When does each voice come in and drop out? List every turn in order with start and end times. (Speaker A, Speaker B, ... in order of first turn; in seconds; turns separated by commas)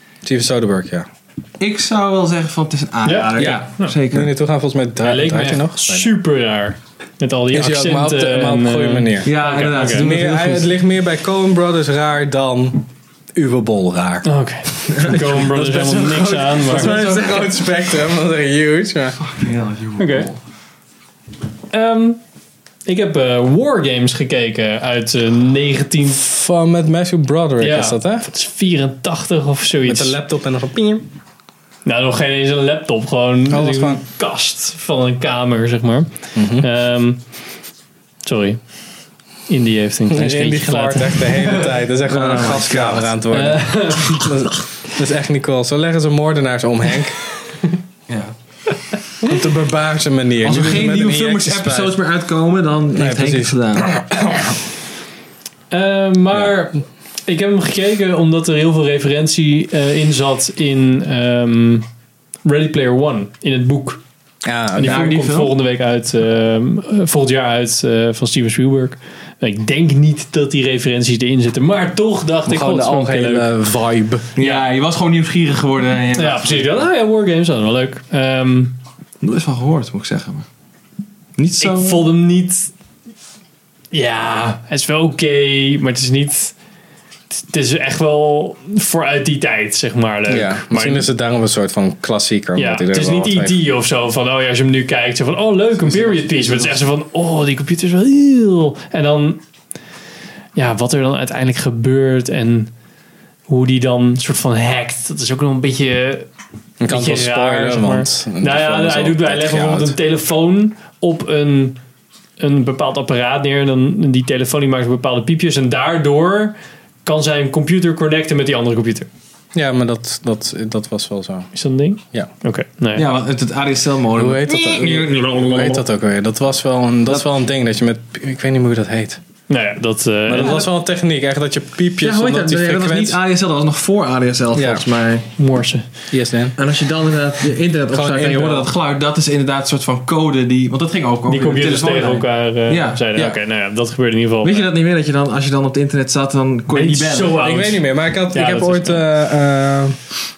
Speaker A: 0.2-1.1, Speaker B: 1.6-4.3, Speaker C: 3.0-4.0, Speaker A: 3.4-6.1, Speaker C: 5.0-10.1, Speaker A: 7.5-19.3, Speaker B: 9.2-10.8, Speaker C: 14.2-17.1, Speaker B: 14.9-15.3, Speaker B: 16.7-17.7, Speaker B: 19.3-20.4, Speaker C: 20.0-20.3, Speaker C: 21.7-22.2, Speaker C: 22.9-26.2, Speaker A: 26.1-28.3, Speaker C: 27.6-30.2, Speaker A: 29.9-31.1, Speaker C: 31.9-37.2, Speaker A: 33.5-34.0, Speaker A: 36.4-36.7, Speaker C: 38.2-38.6, Speaker C: 39.5-41.7, Speaker A: 40.1-47.2, Speaker B: 42.1-43.2, Speaker C: 43.3-44.5, Speaker B: 48.1-48.4, Speaker A: 49.2-52.0, Speaker B: 50.4-54.0, Speaker A: 52.9-54.5, Speaker C: 55.7-61.9, Speaker C: 62.4-64.0, Speaker A: 64.5-65.1, Speaker C: 64.7-73.5, Speaker B: 64.8-65.5, Speaker A: 72.5-74.3, Speaker B: 74.4-76.9, Speaker C: 74.4-74.7, Speaker C: 76.2-78.8, Speaker B: 79.2-80.5, Speaker B: 81.4-82.1, Speaker C: 81.6-82.7, Speaker C: 83.9-86.5, Speaker C: 87.3-91.1, Speaker A: 90.3-93.6, Speaker C: 92.6-99.4, Speaker B: 96.0-96.7, Speaker C: 100.6-102.7, Speaker C: 103.5-106.3, Speaker A: 106.8-110.0, Speaker C: 106.9-111.8, Speaker C: 112.4-119.1, Speaker A: 119.5-121.5, Speaker C: 121.5-123.1, Speaker B: 123.0-125.9, Speaker A: 124.2-129.2, Speaker C: 129.5-130.6, Speaker A: 130.3-133.2, Speaker B: 130.4-130.6, Speaker B: 132.0-135.3, Speaker A: 134.5-134.8, Speaker C: 135.4-135.9, Speaker A: 136.1-136.6, Speaker B: 136.6-143.0, Speaker A: 137.9-138.7, Speaker C: 141.3-144.7, Speaker B: 144.4-147.4, Speaker C: 146.7-149.0, Speaker A: 147.4-150.0